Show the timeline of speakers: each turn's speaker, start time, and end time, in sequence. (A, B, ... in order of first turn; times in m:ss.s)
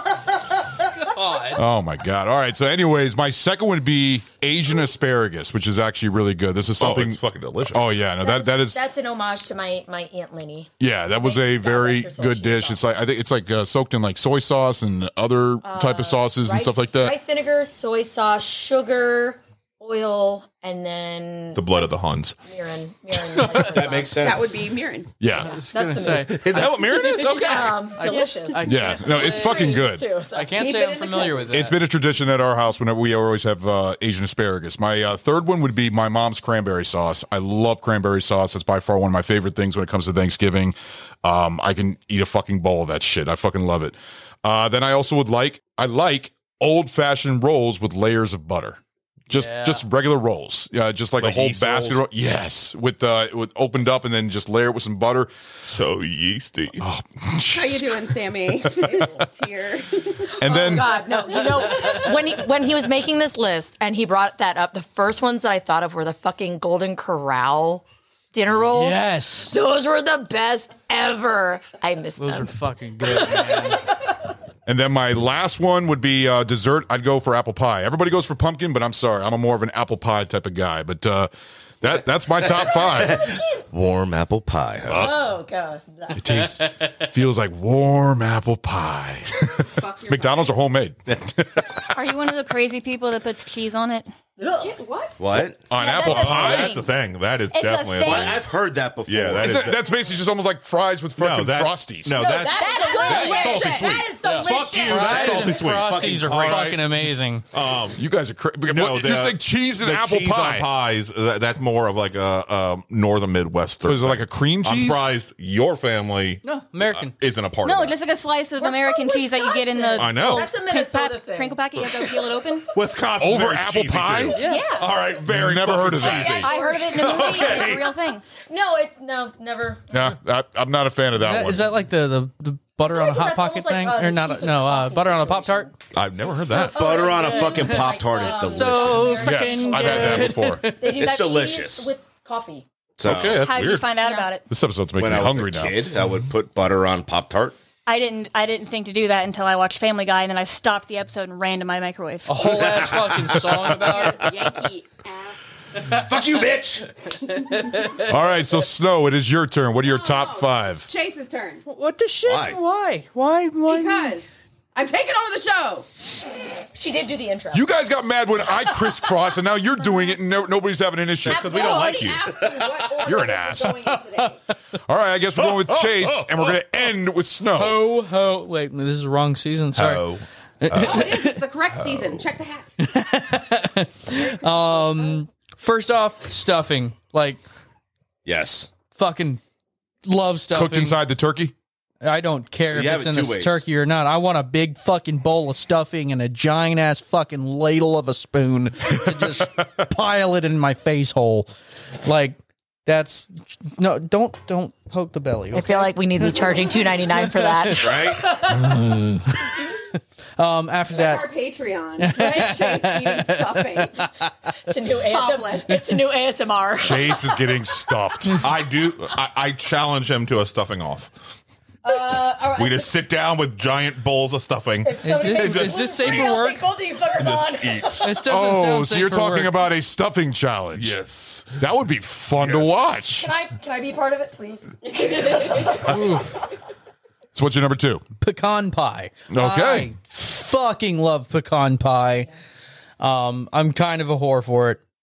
0:01.0-0:01.6 A
0:01.5-0:07.2 B
0:06.8-0:07.9 C
0:07.7-0:08.8 B
0:08.2-0:12.9 D
0:10.8-0:17.2 B
0:15.6-0:21.8 D
0:21.5-0:22.4 C
0:22.4-0:24.2 D
0:23.3-0:23.9 A
0:23.6-0:24.6 E
0:24.1-0:25.2 F
0:25.2-0:25.6 B
0:25.3-0:31.8 A
0:25.4-0:30.7 D
0:26.2-0:27.9 C
0:28.6-0:30.0 B
0:30.5-0:31.5 F
0:31.5-0:55.3 B
0:49.3-0:49.9 A
0:51.2-0:52.0 C
0:55.6-0:56.8 C
0:56.8-0:58.2 B
0:57.5-1:00.5 F
1:00.4-1:01.0 B
1:00.4-1:14.0 D
1:01.6-1:02.0 A
1:08.7-1:09.6 A
1:12.2-1:13.8 A
1:14.7-1:21.3 B
1:21.8-1:23.3 B
1:22.4-1:25.1 E
1:24.9-1:25.3 B
1:25.0-1:26.2 D
1:26.1-1:32.0 B
1:29.6-1:30.6 F
1:31.9-1:34.1 G
1:34.4-1:34.8 D
1:34.6-1:35.2 F
1:35.2-1:35.6 E
1:35.7-1:36.8 B
1:35.7-1:36.9 G
1:36.0-1:38.4 C
1:37.5-1:38.4 G
1:38.0-1:39.8 E
1:39.1-1:39.8 C
1:39.4-1:42.3 B
1:41.2-1:47.0 C
1:42.1-1:45.4 D
1:42.5-1:43.6 G
1:42.8-1:44.0 F
1:43.1-1:45.8 B
1:44.8-1:47.5 A
1:46.3-1:46.7 B
1:47.5-1:48.0 C
1:48.0-1:50.7 B
1:48.7-1:58.0 C
1:53.8-1:55.2 B
1:56.4-1:57.2 A
1:57.6-2:02.7 G
1:58.6-2:02.5 D
2:00.0-2:00.5 C
2:02.7-2:07.9 C
2:03.2-2:04.4 B
2:04.3-2:04.8 A
2:04.4-2:04.9 G
2:05.3-2:06.5 B
2:06.0-2:07.8 D
2:06.0-2:08.2 G
2:08.4-2:09.9 D
2:09.9-2:11.7 B
2:11.2-2:15.7 A
2:12.8-2:15.7 D
2:15.9-2:17.0 C
2:16.4-2:22.6 D
2:16.7-2:19.3 E
2:16.9-2:17.2 G
2:17.3-2:21.0 A
2:19.2-2:20.6 B
2:20.9-2:21.9 E
2:23.0-2:23.5 E
2:23.0-2:23.9 C
2:23.4-2:24.5 G
2:24.0-2:24.3 D
2:24.5-2:25.9 B
2:25.0-2:27.6 E
2:27.9-2:32.4 G
2:32.3-2:34.3 A
2:33.8-2:35.4 F
2:35.9-2:36.9 E
2:38.0-2:40.9 B
2:39.8-2:41.6 F
2:41.6-2:44.2 A
2:42.2-2:42.6 E
2:43.6-2:45.9 F
2:46.7-2:47.7 D
2:47.5-2:51.6 B
2:51.2-2:52.4 C
2:51.3-2:54.4 F
2:51.5-2:52.1 D
2:53.0-2:54.0 B
2:54.9-2:57.9 B
2:55.4-2:56.6 C
2:57.5-3:01.4 A
2:59.7-3:01.1 C
3:00.8-3:02.8 F
3:01.7-3:02.2 C
3:02.8-3:07.4 A
3:04.2-3:05.2 F
3:08.2-3:08.7 E
3:08.9-3:09.4 A
3:10.0-3:11.0 A
3:10.5-3:11.5 B
3:12.0-3:21.5 A
3:12.7-3:13.6 E
3:22.0-3:31.3 A
3:25.5-3:28.8 D
3:27.8-3:28.2 E
3:30.9-3:34.1 F
3:32.0-3:34.0 A
3:34.7-3:37.6 D
3:35.0-3:35.8 F
3:36.8-3:38.4 B
3:38.4-3:41.4 C
3:41.8-3:43.0 D
3:41.9-3:46.4 C
3:44.8-3:48.2 D
3:45.0-3:46.7 A
3:47.1-3:48.0 C
3:48.0-3:49.6 A
3:48.3-3:51.0 B
3:50.7-3:51.7 C
3:51.6-3:53.3 B
3:52.4-3:52.8 C
3:53.1-3:56.0 D
3:55.0-3:55.8 F
3:55.8-3:56.4 A
3:57.3-3:58.0 B
3:58.2-4:02.3 A
3:59.3-3:59.9 B
4:03.0-4:04.8 A